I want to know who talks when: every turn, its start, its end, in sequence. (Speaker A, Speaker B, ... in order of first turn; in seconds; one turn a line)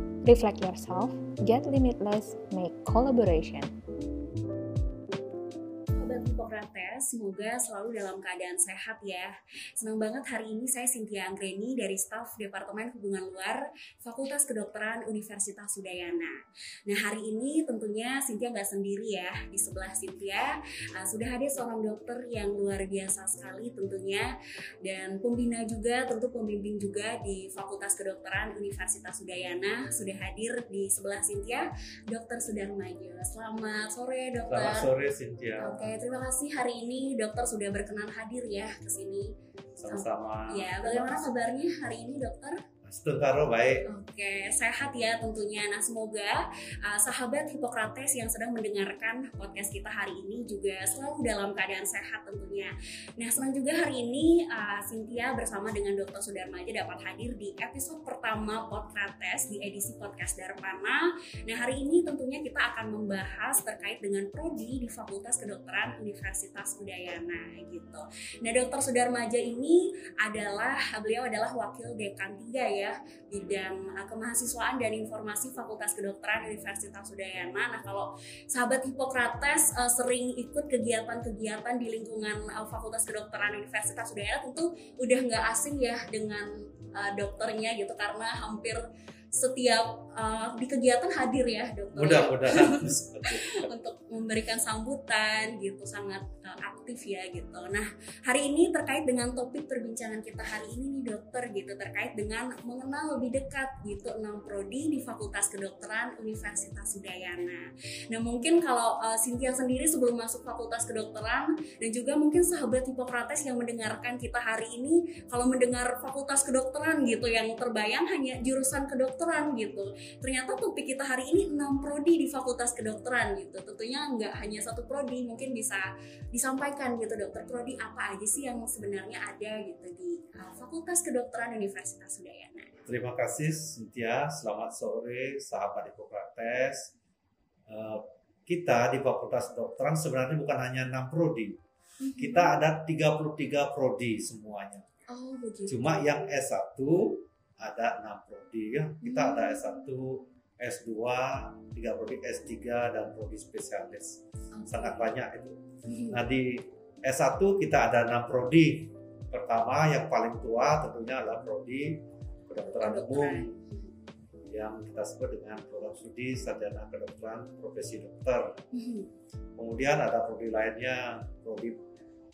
Speaker A: 0.2-3.7
Speaker B: 6.0-16.4
Speaker B: 16.9-24.3
Speaker B: 24.8-34.9
Speaker C: 34.5-35.9
Speaker B: 35.6-39.3
Speaker C: 39.8-41.2
Speaker B: 39.9-42.6
Speaker C: 42.8-43.9
Speaker B: 43.9-132.8
Speaker C: 92.0-93.7
Speaker C: 132.8-136.9
Speaker C: 137.7-141.6
Speaker B: 142.0-142.6
Speaker C: 142.2-144.8
Speaker B: 145.1-145.9
Speaker C: 145.7-155.6
Speaker B: 149.0-149.8
Speaker B: 154.5-155.1
Speaker B: 155.8-156.2
Speaker C: 156.1-163.5
Speaker B: 162.8-163.9
Speaker C: 164.5-168.6
Speaker B: 168.7-169.1
Speaker C: 169.6-171.8